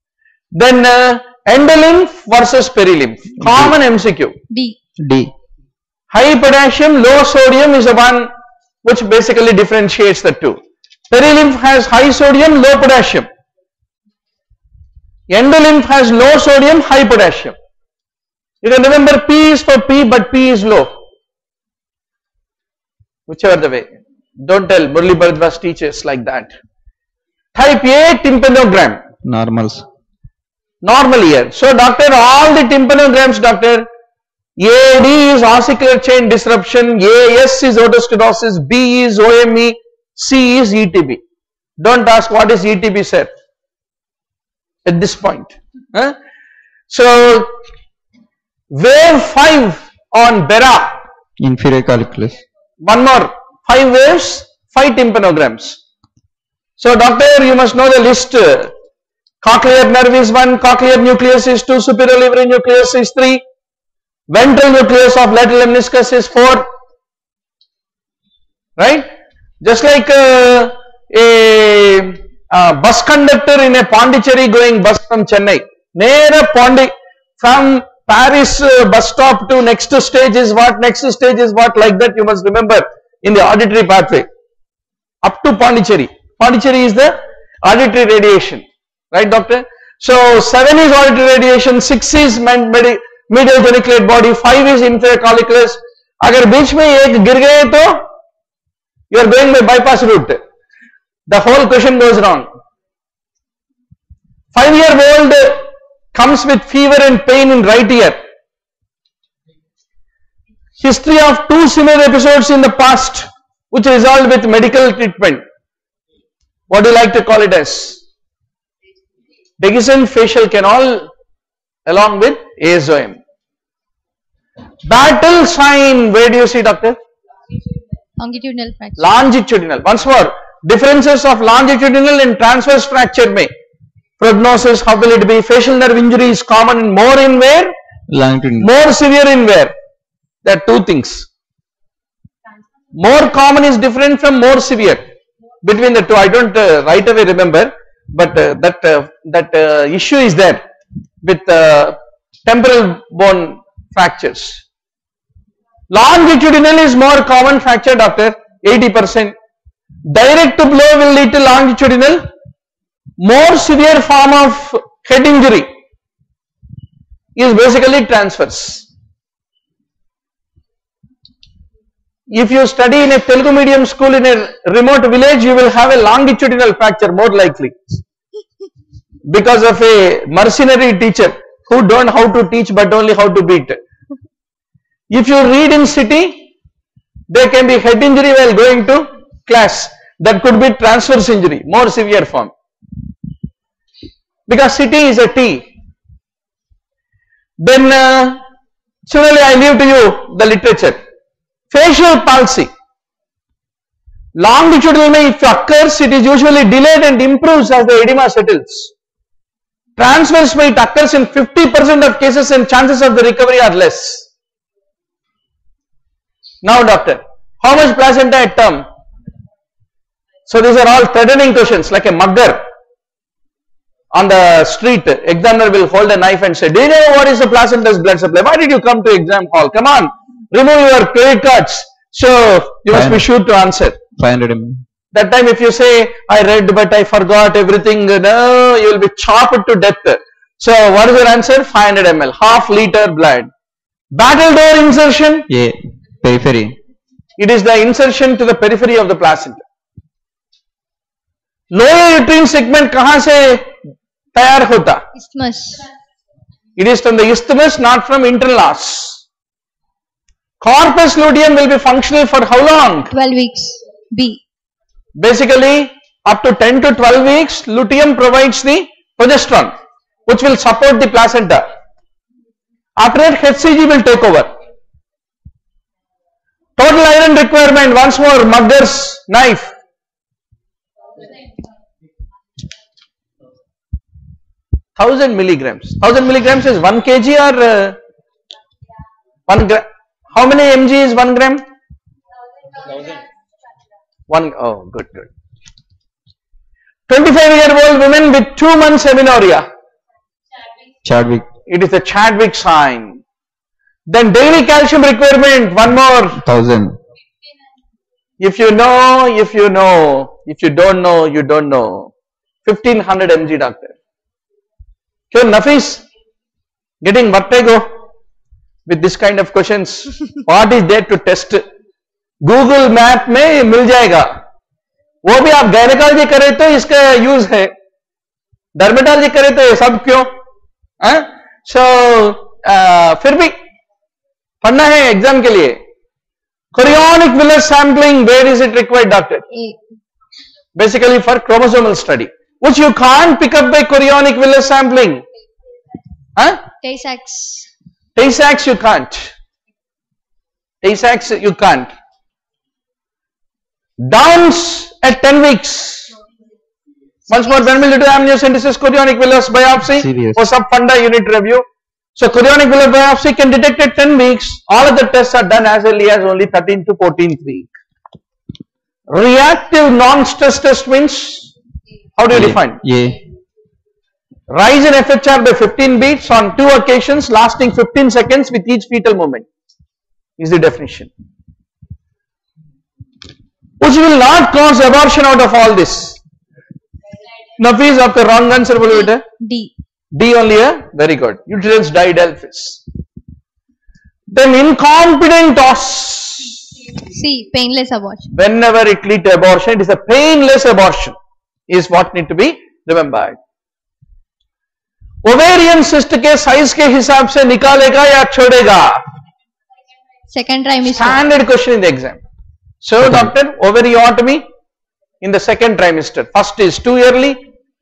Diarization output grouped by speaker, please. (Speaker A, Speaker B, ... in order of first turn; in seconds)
Speaker A: 0.5-4.4, 6.1-8.3, 8.8-13.3, 15.3-17.6, 18.6-20.9, 23.3-23.9, 24.4-26.5, 27.6-29.0, 30.8-33.9, 34.6-41.2, 41.8-43.3, 44.9-46.2, 46.9-47.5, 48.7-51.0, 52.8-55.8, 56.8-58.7, 59.4-63.4, 64.3-66.7, 68.8-69.1, 69.6-84.3, 85.2-98.0, 99.1-100.4, 101.3-102.5, 104.5-108.2, 110.8-115.4, 116.7-118.0, 119.6-121.1, 121.9-123.2, 124.9-127.0, 129.0-133.5, 134.2-137.7, 138.6-139.7, 140.4-141.3, 142.9-145.1, 145.6-150.6, 151.2-154.6, 155.9-159.3, 160.1-162.3, 163.2-165.7, 167.4-168.9, 172.3-178.0, 179.3-183.8, 185.1-186.5, 187.3-192.5, 194.5-195.7, 197.6-198.4, 199.1-201.0, 201.7-202.7, 204.4-208.9, 210.0-214.3, 216.6-218.8, 220.5-222.6, 224.1-234.0, 235.1-243.5, 244.1-245.5, 247.4-249.6, 251.7-253.7, 254.3-255.0, 256.8-259.2, 260.6-263.1, 265.2-269.7, 270.3-271.7, 273.0-274.5, 276.8-279.7, 285.0-288.0, 289.5-291.6, 294.3-295.3, 297.1-299.7, 301.7-303.2, 304.1-306.4, 308.4-312.1, 312.6-313.9, 315.3-316.0, 317.0-317.9, 318.9-321.6, 322.4-324.3, 325.2-327.7, 328.8-330.3, 331.0-333.6, 334.6-335.8, 336.7-339.4, 340.8-345.2, 346.4-346.6, 348.2-349.3, 350.8-351.9, 354.0-356.1, 357.3-361.6, 362.2-367.7, 369.1-371.5, 372.2-372.8, 374.5-379.5, 380.4-381.1, 383.8-386.2, 387.6-389.2, 390.1-392.8, 394.3-396.6, 398.3-401.2, 401.7-403.4, 405.2-409.0, 410.9-412.2, 412.8-414.4, 415.2-417.4
Speaker B: 3.4-3.7, 5.0-5.3, 29.2-29.9, 51.4-52.4, 138.1-138.7, 232.9-233.2, 234.2-234.8, 245.5-246.8, 301.0-301.5, 306.4-307.0, 359.9-360.4, 372.3-373.2
Speaker C: 4.5-4.8, 128.2-129.1, 255.2-255.8, 263.1-264.4, 339.5-339.8, 346.8-347.7, 389.4-389.7, 397.1-398.3, 410.3-411.2